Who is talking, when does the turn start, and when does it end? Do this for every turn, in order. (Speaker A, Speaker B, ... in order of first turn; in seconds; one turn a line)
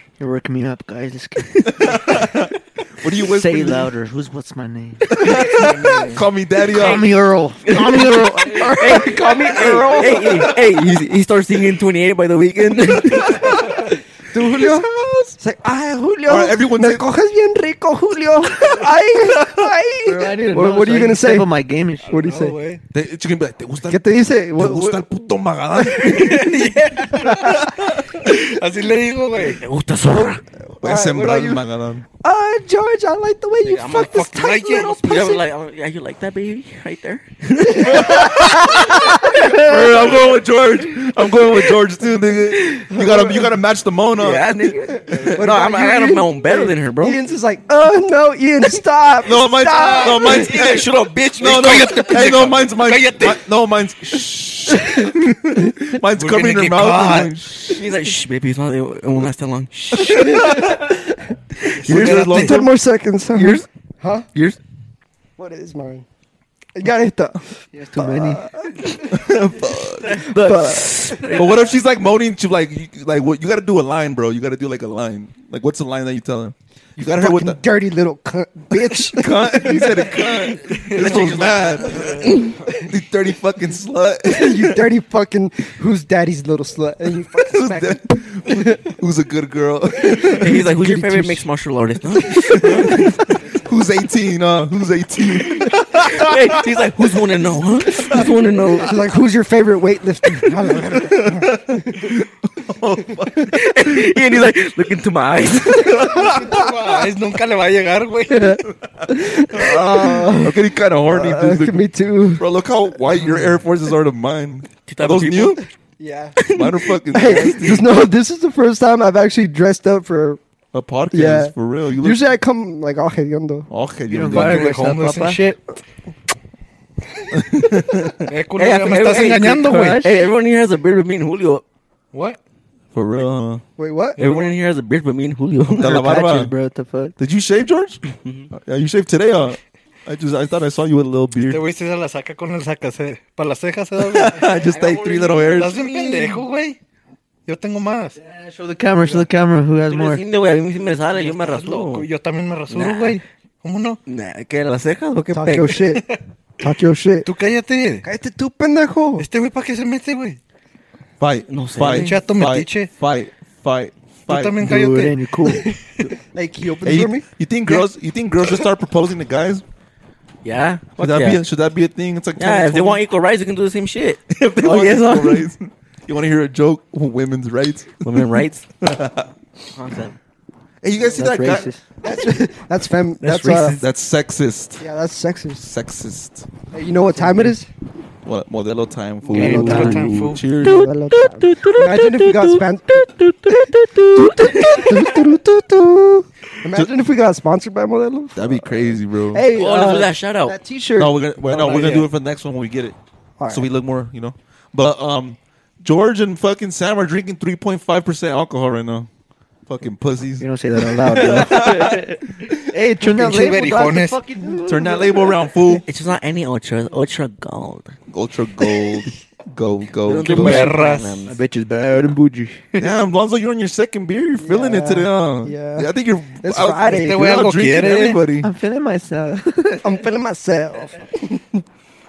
Speaker A: 0.2-2.3
Speaker B: 1.7-3.9
Speaker A: 3.1-5.4
Speaker B: 5.1-7.1
Speaker C: 5.5-6.3
Speaker A: 6.7-9.2
Speaker D: 6.8-7.0
Speaker D: 7.7-13.6
Speaker E: 7.7-10.6
Speaker B: 9.3-10.4
Speaker E: 13.3-21.5
Speaker B: 14.4-15.4
Speaker B: 16.3-17.0
Speaker A: 20.1-22.2
Speaker C: 22.1-22.8
Speaker E: 22.1-22.6
Speaker B: 22.9-28.3
Speaker E: 23.9-25.0
Speaker C: 26.0-29.6
Speaker D: 29.4-30.4
Speaker E: 30.2-31.6
Speaker B: 30.8-32.1
Speaker E: 32.2-35.4
Speaker D: 33.6-38.4
Speaker C: 34.0-34.9
Speaker E: 37.6-39.9
Speaker B: 37.8-44.5
Speaker E: 42.9-43.5
Speaker D: 44.2-47.2
Speaker E: 44.8-50.5
Speaker B: 45.1-45.4
Speaker B: 49.2-57.9
Speaker D: 50.0-52.6
Speaker C: 51.4-53.4
Speaker E: 54.8-55.1
Speaker C: 56.1-57.4
Speaker D: 57.7-60.2
Speaker B: 59.9-60.9
Speaker E: 59.9-61.4
Speaker B: 61.8-62.7
Speaker C: 61.9-62.5
Speaker D: 61.9-62.6
Speaker E: 61.9-64.3
Speaker D: 63.4-63.7
Speaker E: 65.4-66.1
Speaker E: 66.8-69.0
Speaker A: 67.7-68.5
Speaker B: 68.8-70.2
Speaker D: 70.0-71.6
Speaker E: 70.2-71.3
Speaker B: 71.3-77.6
Speaker E: 77.0-80.1
Speaker B: 78.9-84.8
Speaker C: 80.9-81.4
Speaker D: 80.9-82.4
Speaker E: 84.2-88.8
Speaker B: 87.4-90.6
Speaker E: 90.0-91.5
Speaker D: 90.4-93.1
Speaker E: 92.3-93.1
Speaker B: 92.5-96.8
Speaker D: 95.7-99.0
Speaker E: 98.8-102.1
Speaker B: 100.9-104.0
Speaker D: 103.3-106.1
Speaker B: 105.7-106.9
Speaker C: 106.1-108.6
Speaker E: 108.3-112.5
Speaker B: 109.0-115.7
Speaker D: 114.9-115.6
Speaker E: 116.0-116.4
Speaker D: 116.4-116.9
Speaker B: 116.5-117.9
Speaker E: 117.1-120.4
Speaker B: 120.7-122.2
Speaker E: 121.1-123.7
Speaker B: 123.7-124.8
Speaker A: 124.1-125.5
Speaker C: 124.3-125.6
Speaker B: 127.3-128.3
Speaker C: 128.3-130.1
Speaker D: 128.6-131.6
Speaker A: 129.1-130.3
Speaker C: 132.1-132.4
Speaker B: 132.9-133.6
Speaker E: 133.8-134.2
Speaker D: 134.2-136.2
Speaker C: 134.2-134.5
Speaker A: 135.7-137.2
Speaker B: 135.8-136.5
Speaker B: 137.2-141.6
Speaker D: 138.1-138.5
Speaker C: 141.4-144.5
Speaker B: 144.0-146.0
Speaker D: 144.4-146.1
Speaker C: 145.5-146.8
Speaker C: 147.5-148.2
Speaker A: 148.3-150.2
Speaker D: 149.9-152.1
Speaker C: 151.1-154.0
Speaker D: 152.7-153.2
Speaker D: 154.1-155.8
Speaker E: 155.3-156.1
Speaker E: 156.6-157.3
Speaker C: 157.2-158.1
Speaker E: 158.0-159.3
Speaker C: 159.2-160.4
Speaker B: 161.2-164.7
Speaker D: 161.5-162.2
Speaker C: 161.8-162.9
Speaker C: 164.3-165.8
Speaker A: 164.6-165.8
Speaker E: 166.3-167.3
Speaker B: 166.8-169.6
Speaker D: 170.4-171.4
Speaker B: 171.0-173.0
Speaker D: 172.4-175.5
Speaker B: 174.3-178.3
Speaker D: 178.0-178.7
Speaker B: 178.8-179.3
Speaker D: 179.7-180.2
Speaker B: 180.8-181.7
Speaker A: 181.1-181.8
Speaker E: 182.0-183.8
Speaker D: 183.2-183.8
Speaker B: 183.8-184.8
Speaker E: 184.8-185.6
Speaker B: 185.6-186.5
Speaker E: 186.7-187.7
Speaker B: 188.2-190.9
Speaker E: 189.2-190.0
Speaker A: 189.3-190.1
Speaker C: 189.3-190.4
Speaker E: 190.6-201.2
Speaker D: 190.6-195.2
Speaker B: 198.4-199.5
Speaker D: 199.5-200.6
Speaker B: 201.0-203.0
Speaker D: 201.6-202.0
Speaker E: 203.4-203.7
Speaker B: 203.5-209.1
Speaker B: 209.7-212.2
Speaker A: 210.4-215.4
Speaker C: 213.0-214.2
Speaker B: 214.7-215.8
Speaker D: 215.8-217.9
Speaker B: 218.1-220.7
Speaker D: 220.1-221.4
Speaker C: 220.3-221.2
Speaker A: 221.3-222.9
Speaker B: 222.8-228.5
Speaker E: 224.4-227.3
Speaker C: 226.9-228.3
Speaker A: 228.4-229.9
Speaker E: 229.8-231.6